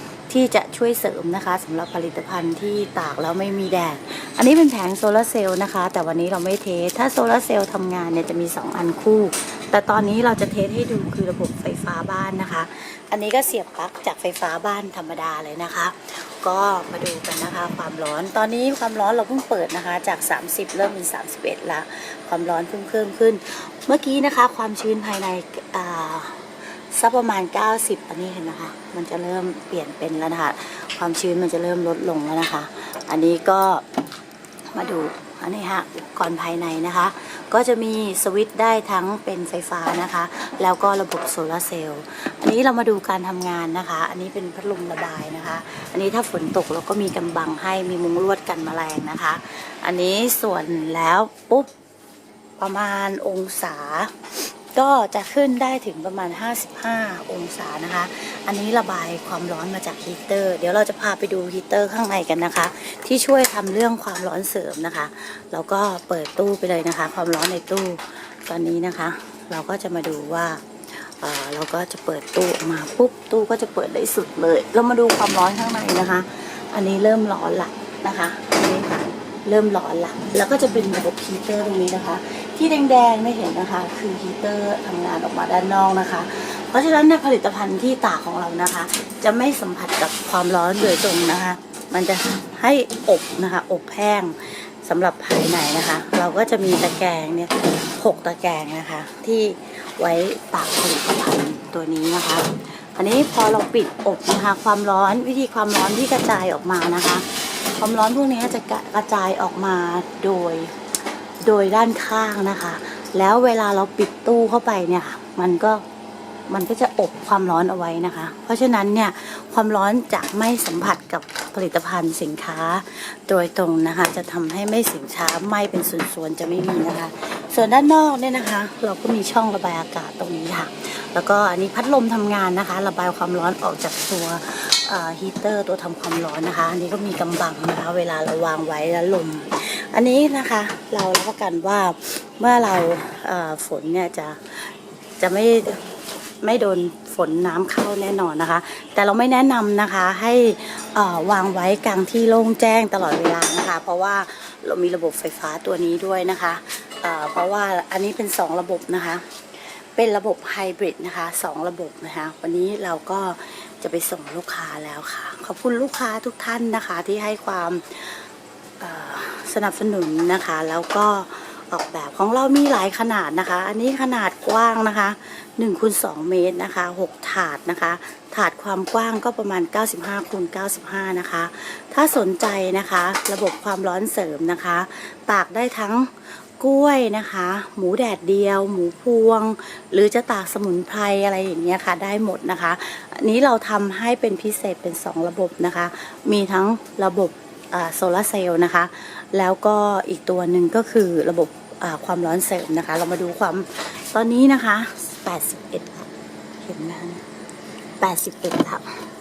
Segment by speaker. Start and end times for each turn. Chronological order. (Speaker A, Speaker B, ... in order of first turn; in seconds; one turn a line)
Speaker A: 0.3-33.8
Speaker A: 34.7-51.7
Speaker A: 52.6-110.8
Speaker A: 111.4-115.8
Speaker A: 116.5-145.8
Speaker A: 146.4-159.2
Speaker A: 159.9-168.2
Speaker A: 168.8-206.1
Speaker A: 206.6-207.2
Speaker A: 208.0-208.8